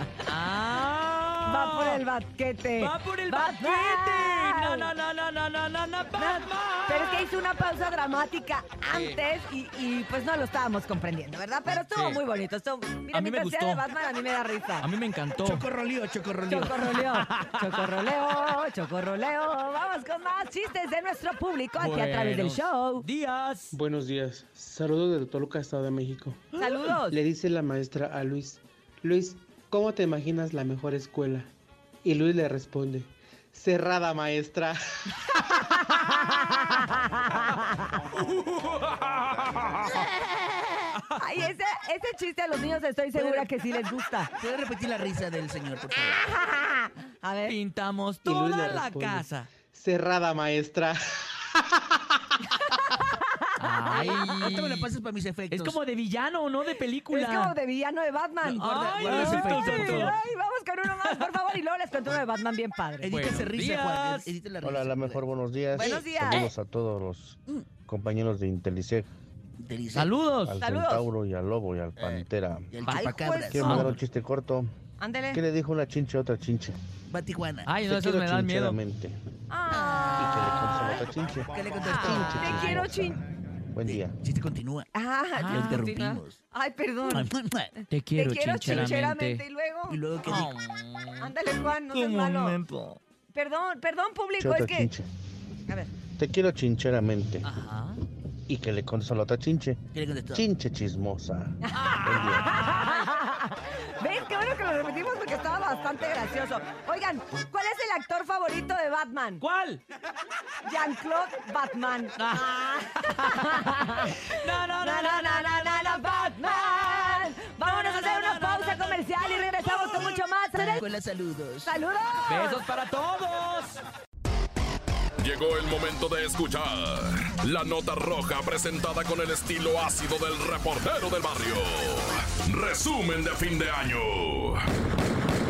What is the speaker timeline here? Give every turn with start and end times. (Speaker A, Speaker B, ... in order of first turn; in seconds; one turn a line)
Speaker A: 0.2-2.0
Speaker B: 1.4-4.9
Speaker A: 2.8-7.3
Speaker B: 6.2-14.9
Speaker A: 8.9-9.2
Speaker A: 11.8-12.2
Speaker A: 13.1-13.8
Speaker A: 14.8-15.7
Speaker C: 15.5-16.8
Speaker B: 16.5-23.1
Speaker A: 16.7-17.6
Speaker A: 21.8-23.8
Speaker D: 23.7-26.4
Speaker B: 26.6-27.2
Speaker D: 27.1-31.5
Speaker D: 32.0-34.8
Speaker A: 38.3-39.8
Speaker B: 41.2-44.3
Speaker C: 44.4-46.3
Speaker B: 46.0-47.6
Speaker A: 47.5-49.5
Speaker D: 48.2-51.0
Speaker A: 53.6-54.9
Speaker C: 53.9-55.8
Speaker A: 55.5-57.5
Speaker B: 57.1-63.1
Speaker A: 58.4-60.2
Speaker C: 59.0-60.1
Speaker C: 63.0-65.3
Speaker A: 63.0-64.3
Speaker E: 64.6-69.1
Speaker B: 65.7-66.5
Speaker C: 65.8-66.5
Speaker C: 69.6-70.1
Speaker A: 69.9-70.6
Speaker E: 70.4-72.8
Speaker B: 70.6-71.1
Speaker C: 72.0-74.0
Speaker A: 72.8-74.0
Speaker B: 72.9-73.9
Speaker E: 73.5-74.7
Speaker B: 75.0-75.4
Speaker E: 75.3-76.8
Speaker C: 77.1-77.7
Speaker A: 77.7-78.8
Speaker E: 77.8-79.2
Speaker B: 79.5-81.1
Speaker C: 79.7-80.4
Speaker E: 80.2-83.2
Speaker C: 81.5-82.7
Speaker A: 81.8-82.6
Speaker B: 81.8-83.2
Speaker E: 83.7-84.2
Speaker C: 83.9-84.9
Speaker B: 84.9-90.0
Speaker A: 85.3-85.8
Speaker C: 85.5-86.4
Speaker C: 87.1-87.7
Speaker A: 87.9-89.5
Speaker C: 89.9-90.5
Speaker A: 90.2-91.3
Speaker B: 91.2-92.6
Speaker A: 91.9-93.0
Speaker B: 93.3-94.9
Speaker E: 94.4-95.1
Speaker E: 96.2-97.5
Speaker A: 97.4-98.0
Speaker E: 98.5-99.8
Speaker C: 99.9-100.4
Speaker E: 100.3-102.5
Speaker B: 101.7-109.4
Speaker A: 101.7-103.1
Speaker A: 109.4-109.8
Speaker B: 110.6-114.3
Speaker A: 112.2-120.1
Speaker B: 114.8-120.8
Speaker C: 120.6-121.8
Speaker B: 121.7-122.6
Speaker A: 122.3-123.8
Speaker F: 125.2-134.6